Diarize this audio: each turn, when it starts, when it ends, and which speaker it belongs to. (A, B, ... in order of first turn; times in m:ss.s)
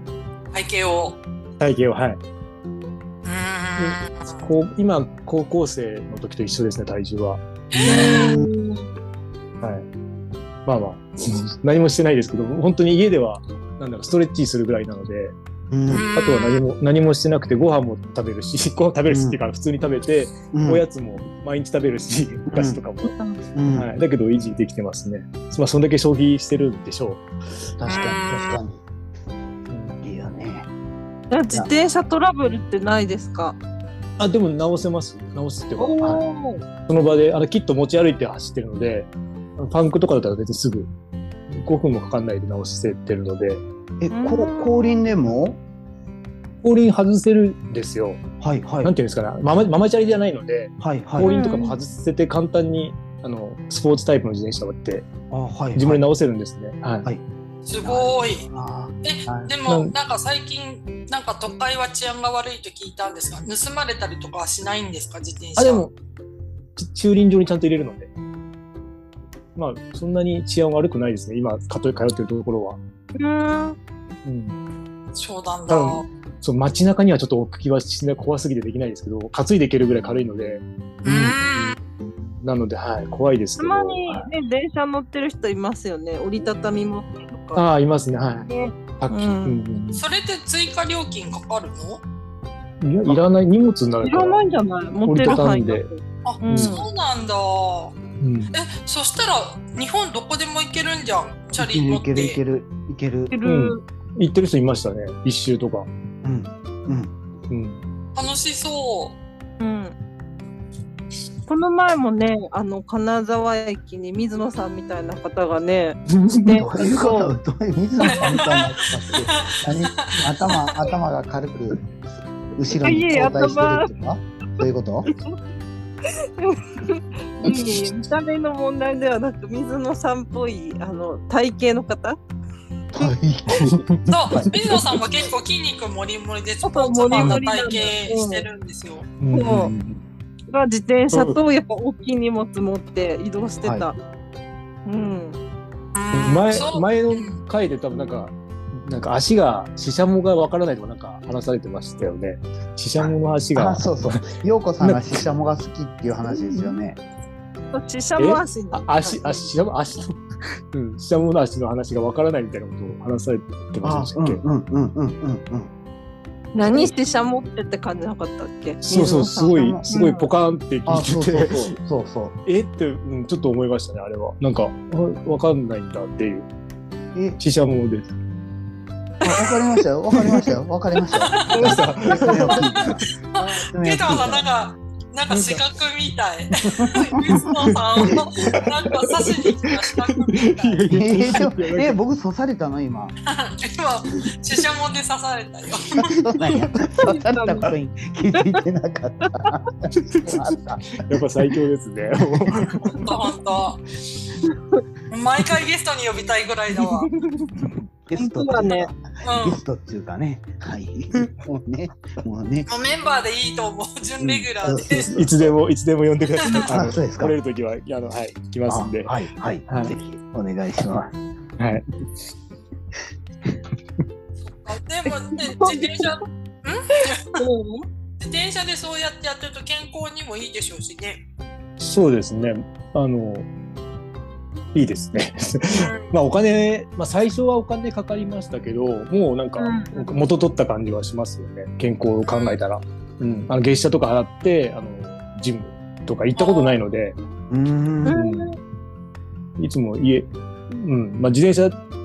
0:00.5-0:01.2 A
0:01.6-0:02.2 B
0:03.2-0:04.4 A
0:03.8-0:07.4 B
0:07.7-0:08.4 A
0:07.8-0:08.5 C
0:07.8-0:08.8 D
0:09.6-0:09.8 B
0:10.6-0:15.4 B
0:15.7-0:16.0 C
0:15.9-0:16.6 A
0:16.1-0:23.1 B
0:19.1-0:19.4 C
0:20.5-0:20.8 C
0:22.5-0:22.8 C
0:23.0-0:23.4 D
0:23.5-0:23.9 C
0:23.7-0:27.3 B
0:27.8-0:28.8 C
0:27.8-0:28.2 B
0:27.9-0:28.6 A
0:29.7-0:30.0 B
0:30.0-0:30.7 C
0:31.3-0:33.6 D
0:34.2-0:36.2 B
0:35.8-0:36.6 D
0:36.8-0:40.9 B
0:41.5-0:43.6 B
0:44.0-0:45.6 C
0:44.1-0:45.0 D
0:46.6-0:48.2 B
0:48.4-0:48.9 C
0:48.8-0:55.1 B
0:50.8-0:51.3 C
0:51.2-0:51.8 D
0:55.3-0:56.0 C
0:55.8-0:57.0 B
0:57.6-0:58.5 A
0:57.8-0:58.9 C
0:59.0-1:05.8 A
0:59.3-0:59.9 B
1:05.6-1:05.9 B
1:06.8-1:08.1 B
1:09.6-1:12.8 B
1:13.1-1:13.8 D
1:14.2-1:14.6 B
1:15.1-1:16.0 A
1:15.7-1:21.4 B
1:21.0-1:21.7 A
1:22.4-1:24.3 B
1:23.6-1:27.6 D
1:27.5-1:30.0 B
1:28.4-1:29.6 D
1:29.9-1:32.0 A
1:32.8-1:34.4 B
1:34.0-1:36.8 D
1:35.0-1:35.9 B
1:36.2-1:38.0 A
1:36.5-1:36.7 B
1:38.2-1:38.5 B
1:38.5-1:42.4 A
1:41.6-1:43.3 C
1:43.3-1:43.8 D
1:43.4-1:45.9 B
1:46.2-1:47.1 C
1:47.5-1:47.8 B
1:48.1-1:49.2 A
1:49.6-1:49.9 D
1:51.5-1:57.3 D
1:56.3-1:56.6 B
1:56.4-2:01.8 C
1:58.0-2:00.1 A
1:58.0-1:58.4 D
2:02.6-2:05.1 C
2:02.8-2:03.9 D
2:06.1-2:12.2 D
2:12.9-2:14.5 C
2:13.5-2:14.0 B
2:14.1-2:19.1 A
2:16.6-2:18.5 D
2:17.1-2:17.4 B
2:19.2-2:19.8 B
2:19.3-2:19.7 D
2:19.4-2:19.9 C
2:20.5-2:24.0 D
2:21.1-2:21.4 B
2:24.8-2:25.4 D
2:25.9-2:27.4 A
2:26.1-2:34.2 B
2:33.0-2:37.0 C
2:34.8-2:35.2 B
2:37.7-2:39.5 D
2:38.2-2:40.2 B
2:40.7-2:44.4 B
2:43.8-2:45.7 C
2:46.5-2:50.3 D
2:46.6-2:46.9 C
2:48.8-2:51.6 B
2:49.5-2:49.8 C
2:50.8-2:52.3 C
2:52.4-2:56.5 B
2:57.4-2:58.2 B
2:59.2-3:04.4 C
3:00.2-3:00.5 B
3:01.2-3:02.8 A
3:01.5-3:03.1 B
3:03.4-3:10.8 A
3:05.3-3:05.6 B
3:06.8-3:12.0 B
3:08.0-3:08.8 C
3:10.8-3:13.1 C
3:13.3-3:16.3 A
3:16.0-3:21.0 C
3:17.0-3:17.7 D
3:20.1-3:23.0 B
3:22.2-3:22.8 C
3:22.8-3:23.8 A
3:24.5-3:24.8 D
3:25.1-3:27.1 A
3:28.1-3:32.7 C
3:28.1-3:28.9 D
3:29.2-3:29.6 A
3:32.7-3:35.1 A
3:34.2-3:35.3 C
3:35.0-3:39.1 B
3:36.4-3:36.7 A
3:36.7-3:37.3 C
3:38.7-3:41.1 C
3:39.7-3:39.9 B
3:41.6-3:41.8 B
3:44.4-3:47.4 A
3:45.3-3:46.1 D
3:47.3-3:47.8 D
3:48.2-3:51.2 A
3:51.8-3:53.5 B
3:54.7-4:07.2 B
3:55.7-3:56.1 A
3:59.6-4:00.1 D
4:02.2-4:02.6 A
4:06.3-4:06.8 A
4:07.5-4:08.2 C
4:08.0-4:08.6 D
4:08.1-4:08.5 B
4:09.6-4:11.8 B